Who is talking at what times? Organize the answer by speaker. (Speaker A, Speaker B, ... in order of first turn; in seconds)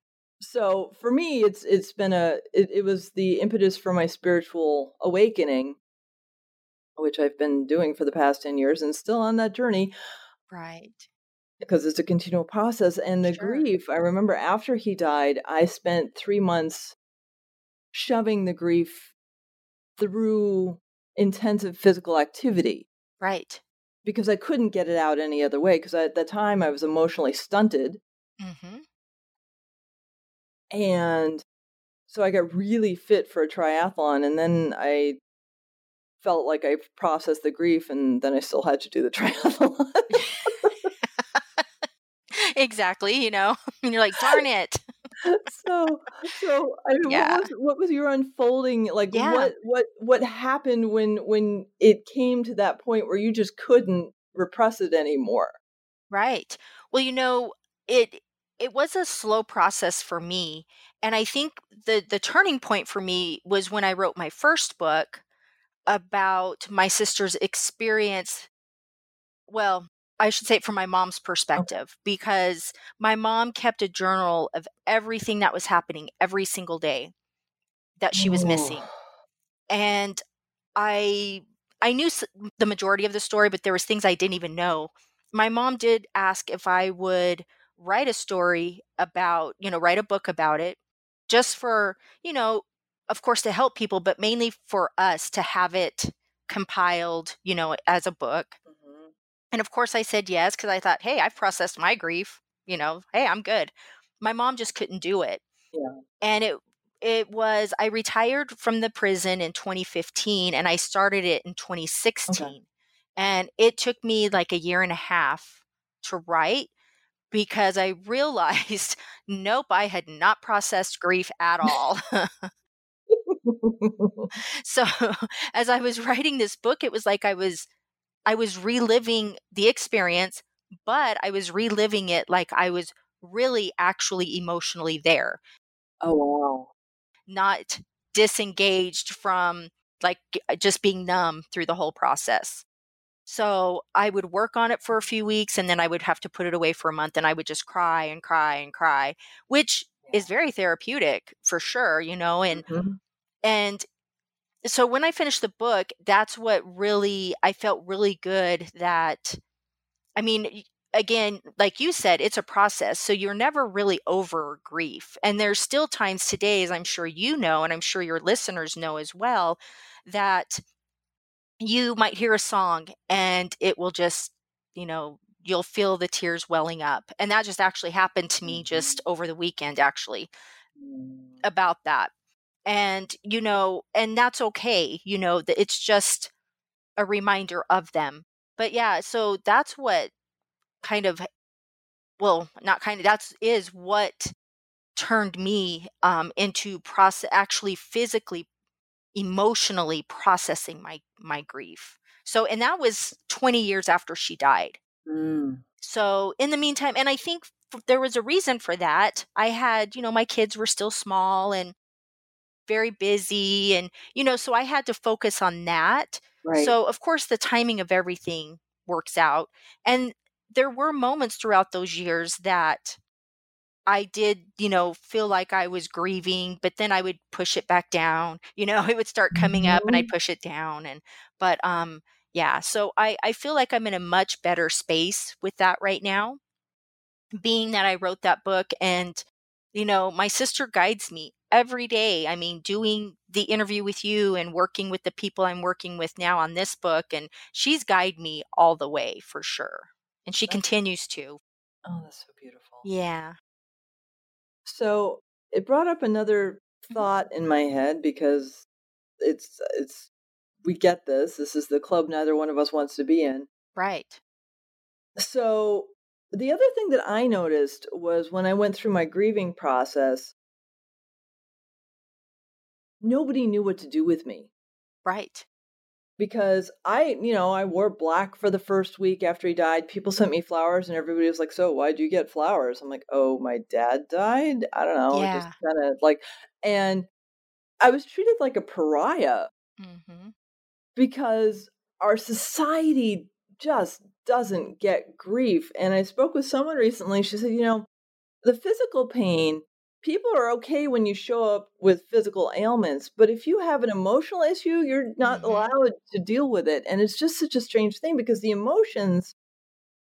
Speaker A: 0.4-5.8, 7.0-9.9, 11.6-16.9, 17.9-19.1, 20.0-22.9, 24.0-28.0, 30.7-31.4, 32.1-35.2, 36.2-40.9, 45.2-55.5, 78.2-78.9, 98.7-99.1, 105.7-106.0, 112.3-112.5, 123.1-124.3, 136.0-136.7, 150.0-150.3, 152.5-153.0, 178.4-179.0, 180.8-181.4, 205.1-205.6, 216.4-216.7, 229.3-230.1, 251.8-252.8, 254.6-258.6, 259.2-260.1, 260.6-263.5, 265.2-270.3, 273.0-274.5, 276.2-287.1, 287.8-289.5, 290.9-297.9, 298.4-309.3
Speaker B: 10.5-11.1, 13.2-13.7, 23.2-23.6, 28.4-28.8, 40.1-44.8, 47.0-47.5, 49.1-49.5, 56.1-65.2, 65.8-68.5, 69.5-77.1, 78.0-78.9, 79.7-80.2, 80.8-90.8, 91.3-98.6, 99.5-105.4, 106.2-112.7, 113.2-116.7, 117.3-122.5, 124.3-127.7, 128.2-135.4, 137.3-142.6, 143.2-152.6, 153.4-153.8, 154.6-159.4, 160.2-170.6, 171.6-180.3, 181.4-182.1, 182.7-186.3, 187.0-190.1, 190.8-191.3, 192.2-194.3, 194.9-198.5, 199.1-204.8, 205.8-211.7, 212.7-223.0, 223.9-236.4, 237.3-251.4, 252.8-253.4, 263.8-264.2, 275.0-275.4, 285.1-285.6, 289.8-290.3, 305.2-305.7